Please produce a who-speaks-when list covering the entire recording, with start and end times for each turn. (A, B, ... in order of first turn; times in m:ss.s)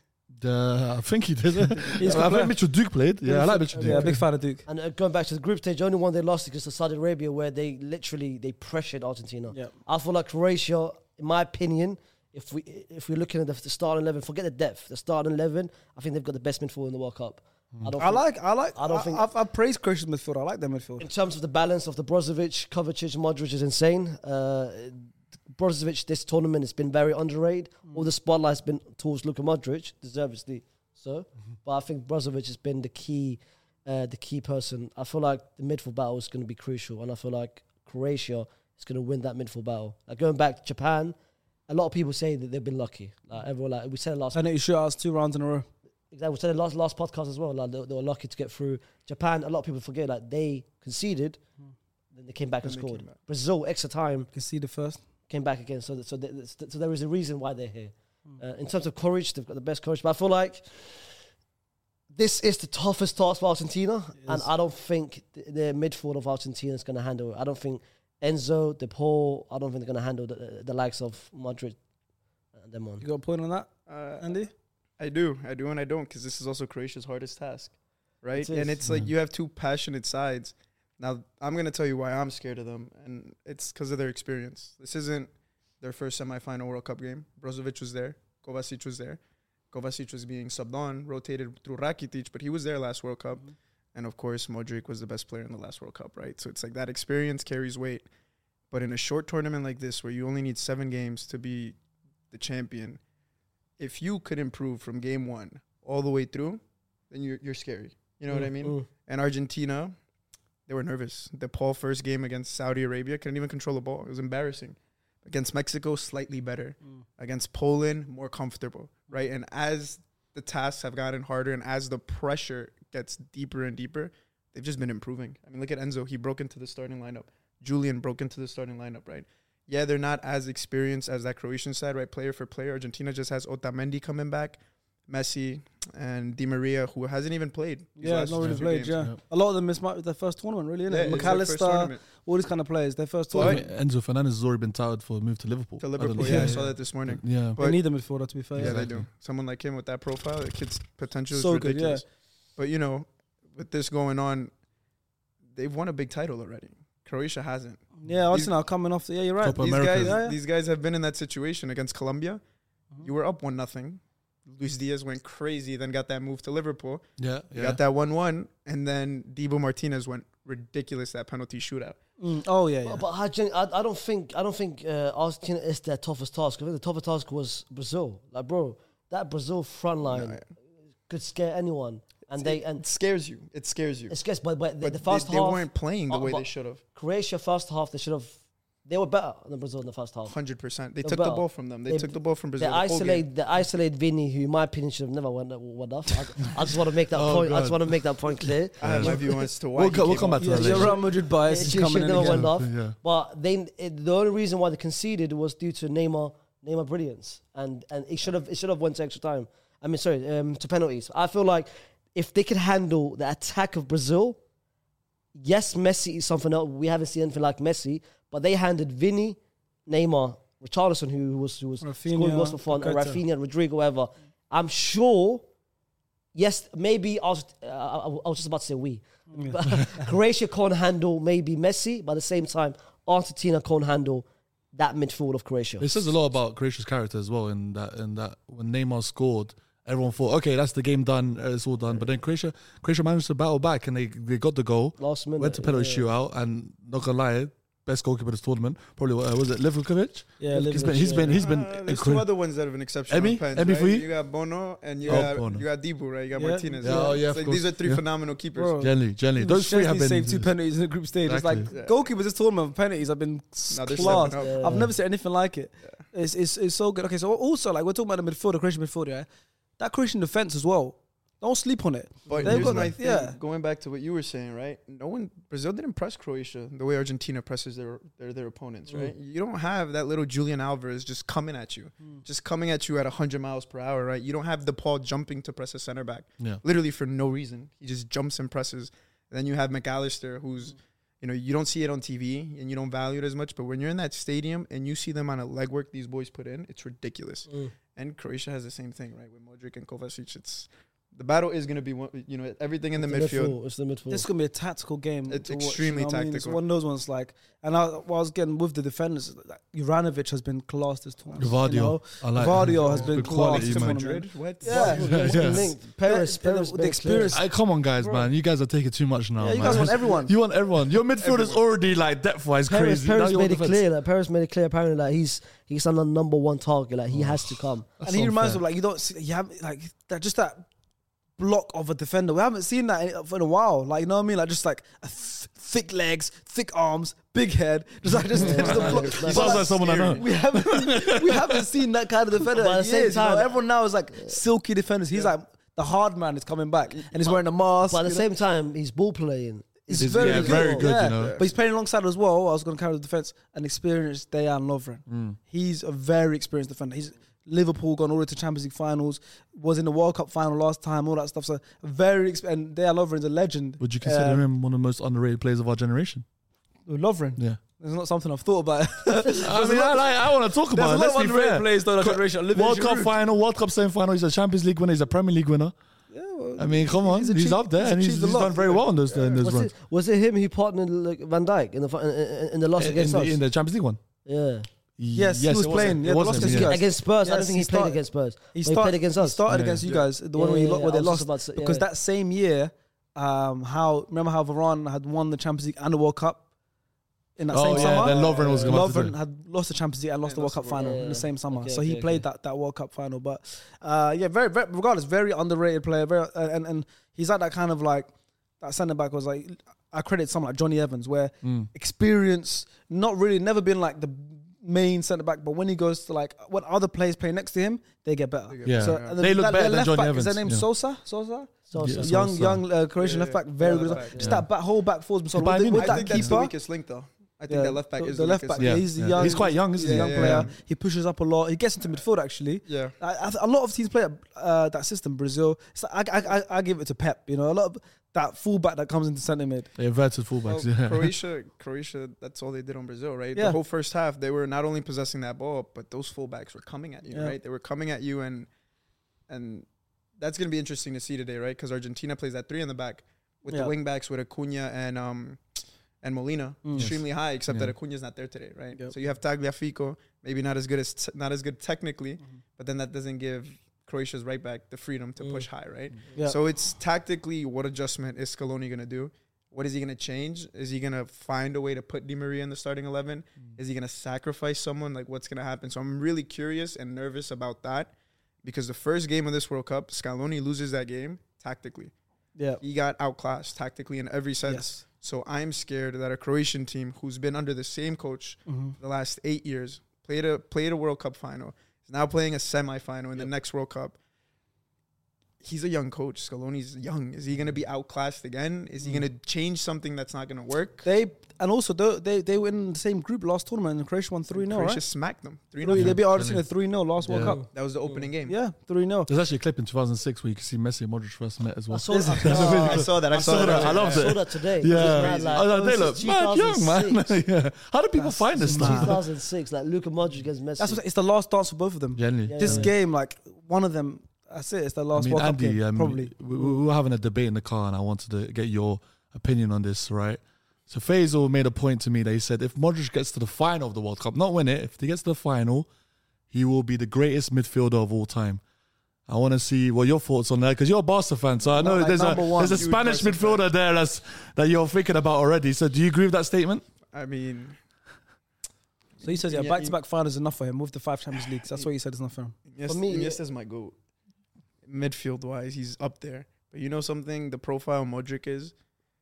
0:00.4-0:04.2 A
0:01.9-0:02.6 B
0:03.2-0:04.6 B
0:03.7-0:19.2 C
0:18.0-0:21.1 B
0:21.0-0:41.1 C
0:41.7-0:44.4 C
0:44.3-0:45.7 B
0:46.1-0:51.4 C
0:52.1-0:54.3 C
0:52.6-0:53.2 D
0:54.3-0:55.0 B
0:55.3-1:01.1 C
1:02.1-1:11.8 C
1:04.2-1:04.5 B
1:12.5-1:13.0 C
1:13.0-1:14.5 B
1:13.9-1:29.2 D
1:18.4-1:18.8 C
1:29.7-1:38.1 D
1:38.7-1:41.8 D
1:42.3-1:43.0 D
1:43.8-1:49.9 D
1:48.6-1:48.8 C
1:50.7-2:19.1 D
2:18.0-2:23.6 B
2:18.4-2:19.2 A
2:20.9-2:22.0 D
2:23.3-2:23.6 D
2:23.3-2:27.6 A
2:25.8-2:27.8 D
2:26.2-2:26.7 B
2:27.6-2:28.8 B
2:28.5-2:32.0 D
2:28.6-2:29.0 A
2:31.3-2:32.0 B
2:32.6-2:34.5 D
2:35.5-2:38.5 D
2:38.0-2:40.4 B
2:39.4-2:40.2 A
2:39.6-2:42.4 D
2:43.0-2:52.0 D
2:47.2-2:47.8 A
2:52.2-2:53.0 B
2:52.8-3:00.4 C
3:00.1-3:00.4 D
3:01.1-3:02.8 C
3:02.4-3:04.2 D
3:04.1-3:10.3 C
3:04.8-3:06.8 D
3:10.3-3:13.2 D
3:11.0-3:19.2 C
3:17.1-3:21.0 A
3:18.8-3:21.0 D
3:20.4-3:22.5 B
3:21.4-3:34.4 C
3:21.7-3:23.0 A
3:35.3-3:45.4 C
3:41.8-3:43.2 B
3:46.3-3:56.0 C
3:49.3-3:50.1 B
3:55.8-4:12.3 A
4:05.0-4:06.1 C
4:10.4-4:11.5 B
4:11.3-4:18.8 D
4:13.1-4:14.1 A
4:15.0-4:15.6 A
4:16.3-4:17.0 B
4:16.8-4:18.0 A
4:18.5-4:29.3 B
4:18.8-4:20.5 A
4:21.2-4:21.7 A
4:21.7-4:22.0 D
4:23.7-4:24.6 D
4:24.0-4:24.9 C
4:29.8-4:33.4 B
4:32.3-5:03.6 D
4:32.3-4:32.9 A
4:38.9-4:39.1 B
5:03.0-5:04.2 C
5:04.1-5:18.3 B
5:05.3-5:06.6 D
5:11.4-5:14.0 A
5:12.6-5:15.4 D
5:14.6-5:17.4 C
5:15.0-5:15.7 A
5:17.3-5:23.8 A
5:19.4-5:20.4 B
5:21.2-5:21.6 D
5:22.6-5:27.9 C
5:27.1-5:28.6 A
5:28.0-5:30.7 B
5:31.4-5:48.2 B
5:38.4-5:41.6 A
5:38.4-5:39.6 C
5:38.7-5:40.2 D
5:42.5-5:43.5 C
5:46.9-5:47.4 D
5:47.9-5:50.8 C
5:49.9-6:04.4 B
5:50.0-5:51.4 A
5:50.2-5:51.5 D
5:55.1-5:55.4 A
6:03.8-6:06.2 A
6:06.9-6:13.1 B
6:09.4-6:15.7 A
6:16.1-6:19.0 B
6:16.6-6:19.7 A
6:19.4-6:23.4 C
6:22.8-6:24.0 A
6:24.2-6:24.7 C
6:25.0-6:26.8 A
6:25.1-6:28.0 B
6:26.4-6:29.4 C
6:28.5-6:36.4 B
6:29.5-6:29.8 A
6:30.3-6:31.8 C
6:37.4-7:06.5 B
6:37.5-6:39.1 A
6:37.7-6:38.5 D
6:40.2-6:41.0 D
6:40.8-6:42.2 C
6:51.4-6:51.7 A
6:58.5-6:59.2 D
6:58.6-7:00.6 A
7:01.7-7:02.2 C
7:01.8-7:02.6 A
7:03.0-7:04.3 D
7:03.7-7:04.2 C
7:04.2-7:04.4 A
7:05.4-7:06.3 A
7:05.7-7:10.6 D
7:07.5-7:19.7 B
7:08.6-7:10.5 A
7:12.6-7:12.9 D
7:19.8-7:21.2 A
7:20.4-7:28.5 D
7:27.1-7:27.4 B
7:29.3-7:29.7 D
7:30.2-7:35.4 D
7:33.5-7:33.7 B
7:36.0-8:01.9 D
7:36.6-7:36.9 B
7:36.8-7:37.7 A
7:46.1-7:46.4 B
8:02.4-8:02.6 B
8:02.6-8:14.0 D
8:04.4-8:04.8 B
8:08.5-8:08.8 B
8:15.4-8:20.9 D
8:20.8-8:24.8 B
8:24.3-8:26.0 D
8:25.6-8:27.4 B
8:25.7-8:26.5 A
8:27.0-8:27.4 A
8:27.4-8:28.4 D
8:28.2-8:29.1 B
8:29.1-8:39.0 A
8:31.7-8:37.1 C
8:31.9-8:32.8 B
8:32.2-8:34.1 D
8:34.7-8:35.4 D
8:38.0-8:40.8 C
8:38.3-8:39.0 B
8:40.6-8:46.6 B
8:42.0-8:42.7 A
8:42.2-8:42.7 C
8:44.9-8:55.7 A
8:56.3-8:58.4 A
8:59.1-9:06.6 A
9:01.5-9:02.7 B
9:02.2-9:03.4 D
9:06.9-9:07.6 D
9:09.0-9:09.7 D
9:09.0-9:12.3 B
9:12.5-9:13.7 D
9:12.6-9:13.2 C
9:14.6-9:18.5 D